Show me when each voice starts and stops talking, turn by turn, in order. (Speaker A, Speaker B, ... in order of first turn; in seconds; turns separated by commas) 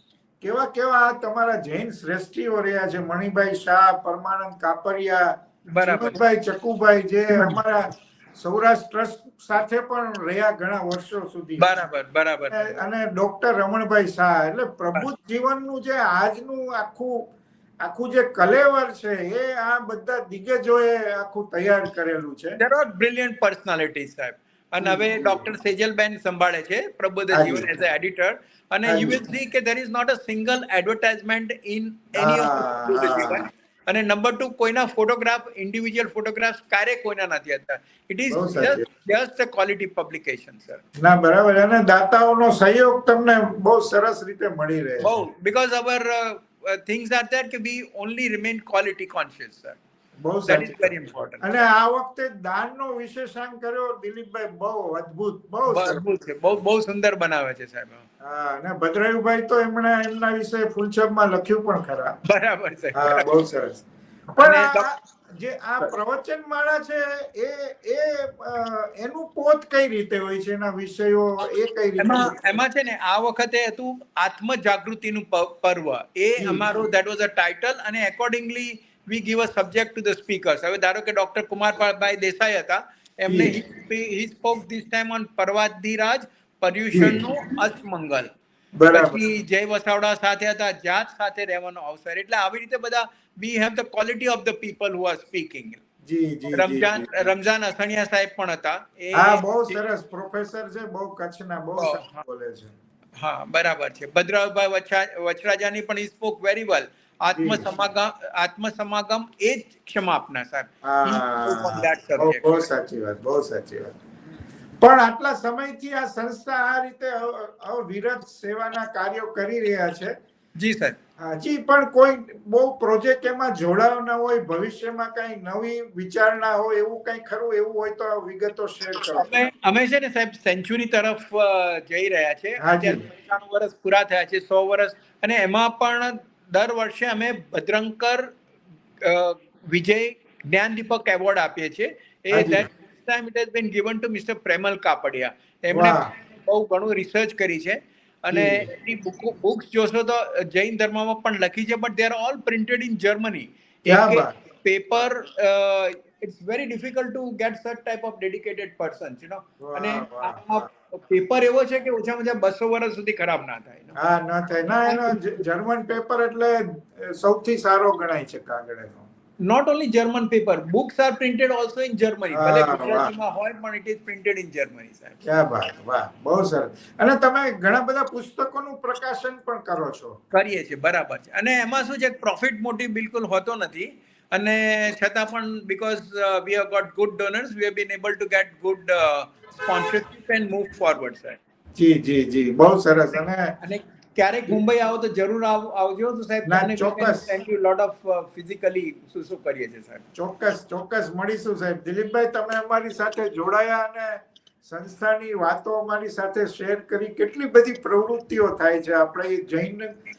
Speaker A: 0.4-11.8, Speaker B: 5.7-6.2, Speaker B: 7.3-7.6, Speaker B: 11.6-12.8, Speaker A: 12.5-17.3, Speaker A: 17.8-22.6, Speaker B: 22.6-40.8, Speaker A: 24.8-25.4, Speaker A: 27.3-27.8, Speaker A: 28.9-29.2, Speaker A: 32.2-33.4, Speaker A: 38.3-38.9, Speaker A: 41.0-45.2, Speaker B: 45.0-49.8, Speaker A: 50.2-56.1, Speaker B: 50.5-51.5, Speaker B: 55.7-58.0, Speaker A: 58.2-62.2, Speaker B: 62.2-63.3, Speaker A: 62.9-72.3, Speaker B: 64.4-64.9, Speaker B: 72.0-88.3, Speaker A: 76.4-76.8, Speaker A: 83.3-83.6, Speaker A: 86.9-87.2, Speaker A: 88.8-89.2, Speaker B: 88.9-95.8, Speaker A: 96.0-97.3, Speaker B: 96.5-99.8, Speaker A: 99.1-102.7, Speaker B: 101.8-102.2, Speaker B: 103.2-112.7, Speaker A: 107.3-107.7, Speaker A: 110.8-114.0, Speaker A: 114.8-120.1, Speaker B: 120.6-121.0, Speaker A: 121.2-129.5, Speaker B: 129.1-138.3, Speaker A: 132.6-133.1, Speaker B: 139.0-164.0, Speaker A: 142.3-142.7, Speaker A: 145.7-146.1, Speaker A: 148.3-148.7, Speaker A: 153.9-154.3, Speaker A: 159.6-160.7, Speaker A: 164.0-169.1, Speaker B: 164.8-165.4, Speaker B: 169.4-175.2, Speaker A: 172.3-173.1, Speaker A: 175.2-180.2, Speaker B: 180.3-191.4, Speaker A: 191.8-193.6, Speaker B: 193.6-200.0, Speaker A: 196.4-197.4, Speaker A: 200.1-209.9